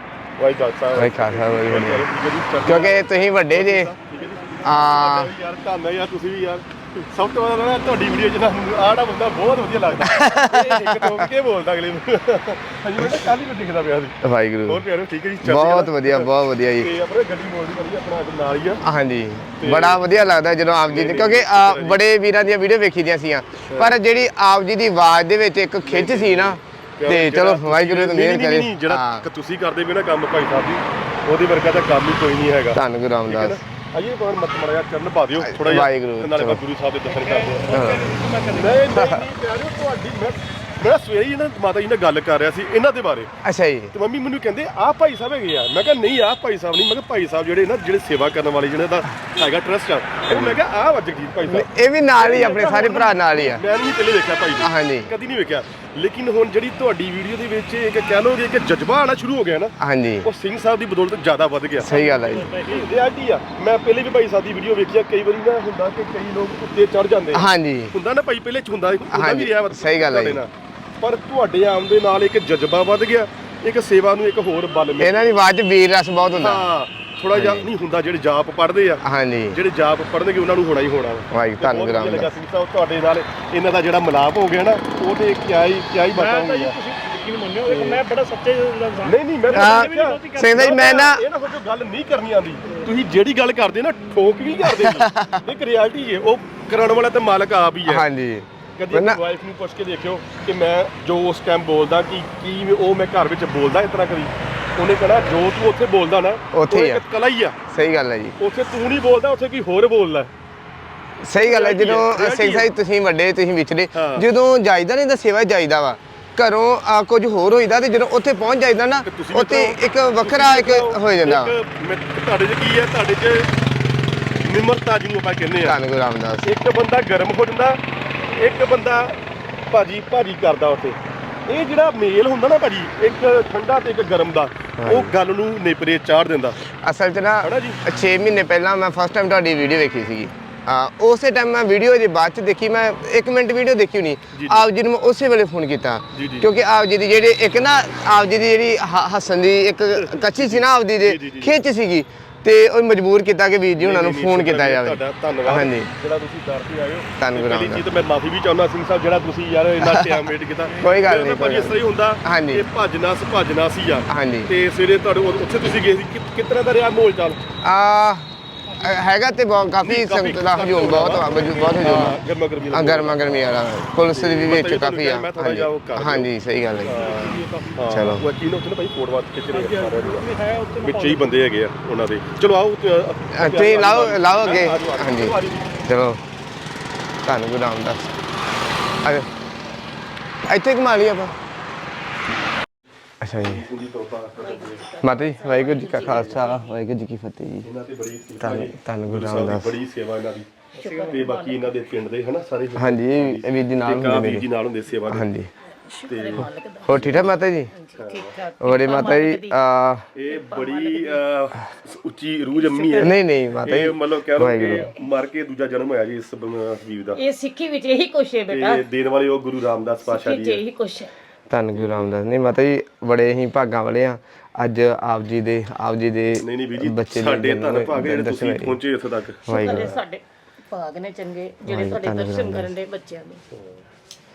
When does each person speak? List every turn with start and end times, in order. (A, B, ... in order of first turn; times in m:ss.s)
0:00.4-0:18.8 A
0:00.9-0:02.1 B
0:02.6-0:03.9 B
0:04.6-0:05.3 B
0:10.0-0:11.3 B
0:14.2-0:14.8 B
0:15.4-0:16.9 B
0:18.8-0:29.3 B
0:19.6-0:20.1 A
0:20.8-0:22.0 A
0:23.6-0:24.0 A
0:25.8-0:37.8 A
0:32.7-0:33.6 B
0:35.4-0:36.6 B
0:37.1-0:39.2 C
0:37.7-0:38.1 B
0:38.5-0:43.3 A
0:39.0-0:39.2 B
0:43.4-0:43.9 B
0:43.9-1:02.0 A
0:50.3-0:50.6 B
0:51.4-0:53.6 B
0:54.6-0:55.1 B
0:59.8-1:00.3 B
1:01.8-1:02.5 B
1:01.8-1:03.0 C
1:02.6-1:15.4 A
1:07.3-1:08.0 B
1:09.1-1:10.4 B
1:15.0-1:16.7 B
1:16.3-1:26.8 A
1:17.3-1:17.7 B
1:19.0-1:19.6 B
1:21.3-1:22.4 B
1:26.1-1:30.8 C
1:27.6-1:28.0 A
1:29.0-1:38.1 A
1:29.5-1:31.3 B
1:34.7-1:35.4 B
1:37.9-1:39.2 B
1:38.8-1:47.7 A
1:46.5-1:47.0 B
1:47.7-1:48.4 B
1:48.4-1:50.3 A
1:51.2-2:01.6 B
1:51.3-1:52.7 A
1:53.9-1:54.3 A
1:59.0-2:03.5 A
2:04.4-2:05.8 A
2:05.6-2:06.5 B
2:06.4-2:07.8 A
2:08.4-2:09.2 A
2:09.7-2:16.6 A
2:14.8-2:15.1 B
2:16.8-2:35.9 B
2:17.4-2:17.9 A
2:24.3-2:24.6 A
2:26.2-2:26.5 A
2:29.9-2:31.6 A
2:33.8-2:47.4 A
2:37.2-2:37.9 B
2:39.8-2:40.1 B
2:40.8-2:42.7 B
2:44.1-2:44.5 B
2:47.6-2:52.2 B
2:49.8-3:00.3 A
2:51.3-2:51.8 C
2:52.7-2:57.1 B
2:56.8-2:58.0 C
2:57.9-2:58.3 B
2:59.5-3:01.4 C
3:00.8-3:05.8 A
3:03.3-3:05.4 B
3:05.9-3:06.2 B
3:07.2-3:08.2 B
3:09.0-3:09.3 B
3:10.5-3:11.3 B
3:13.2-3:13.6 B
3:13.4-3:14.9 A
3:14.4-3:16.8 D
3:15.0-3:17.7 B
3:16.0-3:16.4 A
3:17.6-3:25.3 A
3:18.4-3:19.7 B
3:20.8-3:21.8 D
3:20.8-3:21.2 C
3:22.8-3:24.5 B
3:25.1-3:25.5 B
3:25.9-3:29.6 D
3:26.1-3:27.3 A
3:26.8-3:27.7 B
3:28.0-3:28.3 A
3:28.6-3:30.1 B
3:30.2-3:37.2 A
3:30.3-3:31.2 D
3:32.5-3:33.1 D
3:33.0-3:34.9 B
3:37.1-3:38.9 D
3:38.5-3:40.6 A
3:40.1-3:41.1 D
3:41.5-3:48.8 B
3:41.8-3:42.1 A
3:46.4-3:50.0 A
3:49.5-3:50.0 B
3:49.5-3:53.4 D
3:51.6-3:52.7 B
3:53.5-3:53.8 A